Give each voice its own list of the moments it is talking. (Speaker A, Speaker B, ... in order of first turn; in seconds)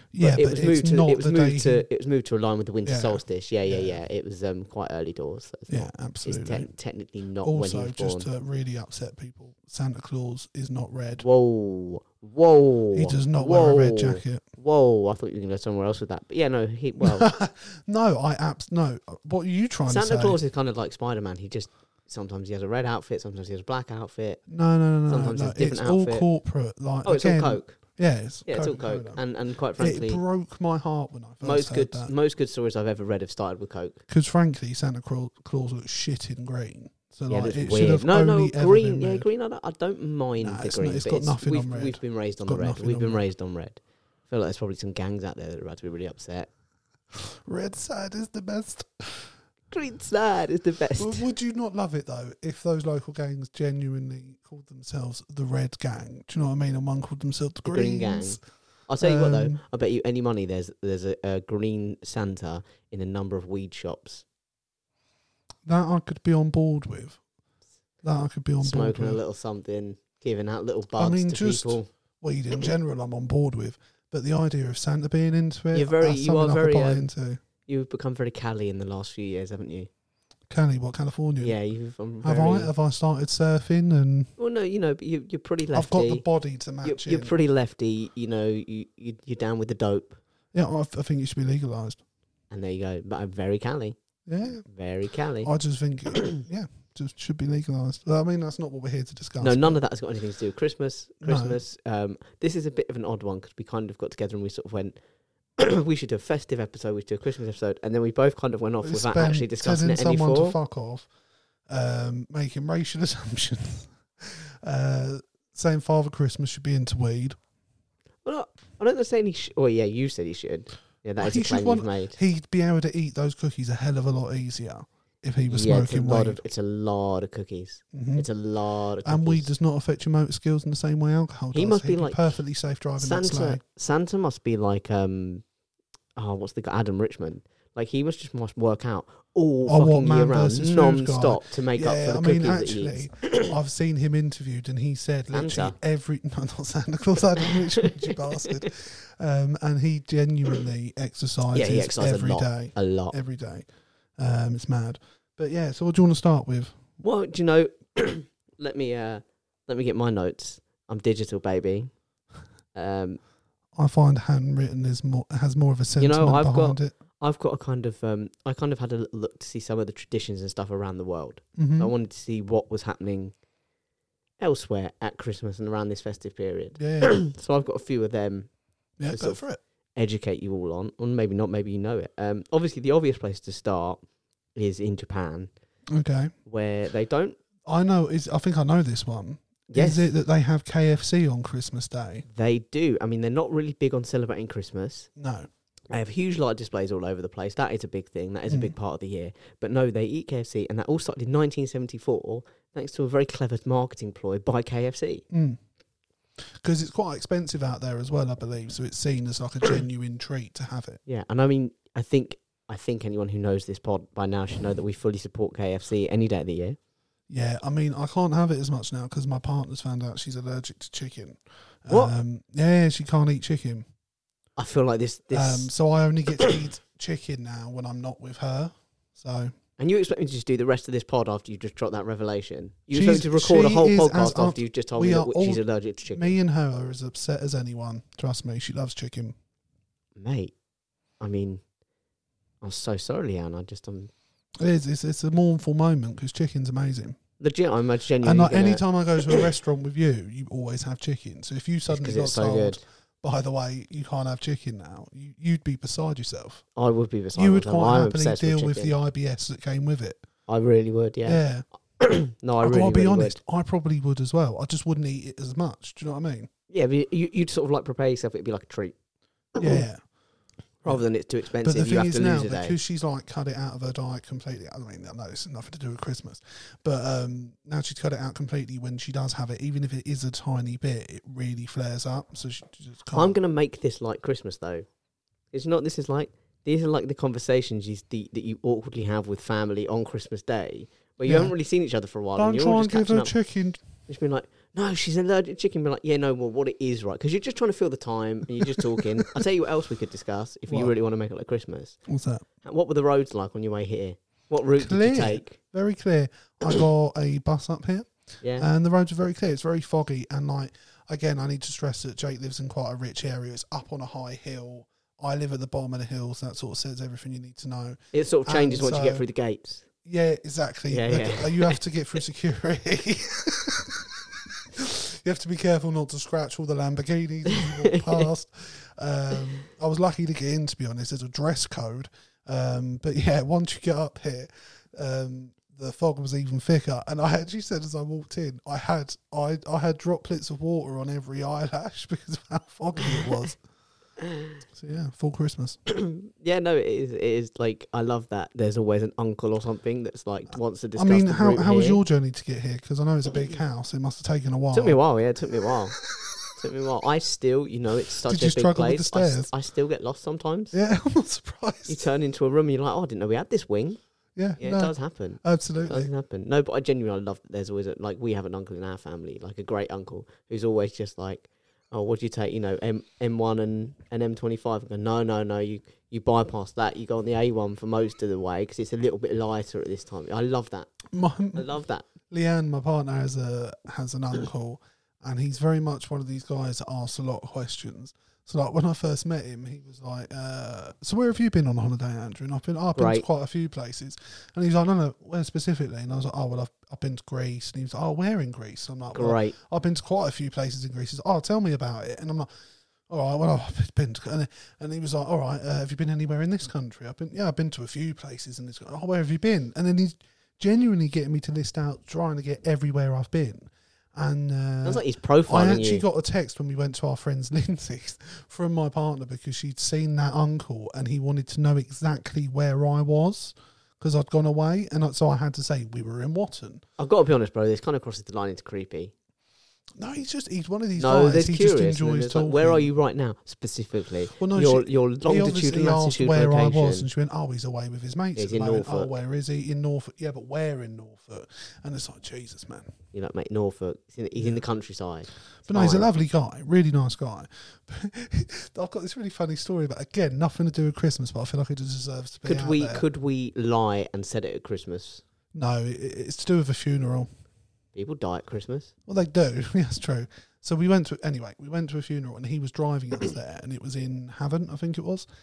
Speaker A: 0.1-1.9, 2.9-4.0, 5.7-6.7, 7.4-11.2, 12.9-14.4, 17.0-20.4, 24.5-29.2, 29.8-32.1, 34.1-39.2, 40.4-43.2, 47.1-49.3, 51.0-58.4, 59.0-59.6, 65.7-67.2, 68.0-69.2, 71.0-77.4, 80.5-81.6, 82.2-84.3, 85.7-87.3, 90.5-92.0, 94.3-94.6, 95.4-99.8, 101.2-101.6, 108.8-111.1, 111.7-117.4, 121.2-126.4, 127.9-128.3, 129.0-133.6, 139.7-153.7, 154.2-156.8, 163.8-166.9, 171.6-171.9, 176.8-177.2, 179.0-179.6, 185.9-186.3, 187.6-192.2, 195.2-195.5, 198.5-198.8, 205.3-205.6, 206.6-211.0, 217.3-223.9, 225.3-229.5, 232.9-239.4, 244.6-247.2, 248.2-256.6, 257.4-260.2, 261.2-261.6, 262.6-266.5, 269.6-270.0, 271.6-283.4, 291.2-291.5, 292.4-293.8, 302.1-302.4, 304.8-319.2, 320.0-343.6, 344.8-345.8, 351.0-355.0, 356.2-356.5, 358.2-359.5, 360.7-362.1, 364.4-366.1, 381.1-381.7, 382.3-402.5, 403.1-426.8, 430.0-432.9, 434.4-442.9, 444.4-444.6, 445.6-453.0, 455.5-457.3, 459.1-465.2
Speaker B: 0.2-8.3, 11.2-17.3, 19.9-24.4, 25.1-26.2, 27.0-27.8, 28.4-30.2, 31.4-34.0, 37.3-46.5, 49.7-51.3, 57.6-64.2, 68.6-71.9, 75.7-77.1, 77.7-79.9, 81.4-82.7, 84.4-86.2, 86.8-90.2, 92.5-94.0, 94.7-95.5, 96.1-96.4, 99.4-105.0, 105.6-110.6, 118.2-122.2, 125.5-129.5, 131.5-132.4, 133.0-135.4, 136.2-143.5, 145.3-145.8, 147.8-148.6, 151.5-153.2, 157.0-161.9, 162.8-163.2, 166.0-173.3, 174.4-178.5, 179.1-179.4, 179.9-184.0, 184.6-185.5, 186.4-187.4, 189.7-190.1, 192.3-195.1, 195.9-205.2, 211.1-216.8, 221.9-222.1, 224.6-225.7, 229.8-236.4, 240.2-240.5, 241.2-241.6, 242.6-244.1, 247.4-249.4, 251.9-252.8, 256.8-258.9, 260.5-261.4, 262.0-263.4, 266.7-268.9, 269.6-269.8, 270.8-272.8, 283.1-284.9, 285.5-293.3, 294.1-302.0, 302.6-305.6, 308.4-308.7, 318.1-319.9, 320.9-321.8, 327.5-328.3, 344.2-344.5, 345.9-352.0, 354.7-356.0, 356.6-360.8, 361.9-364.0, 364.6-380.9, 381.5-382.1, 393.0-393.2, 399.1-399.5, 414.8-416.0, 427.0-429.1, 431.0-437.1, 438.4-439.1, 443.1-446.1, 452.4-455.2, 457.9-458.9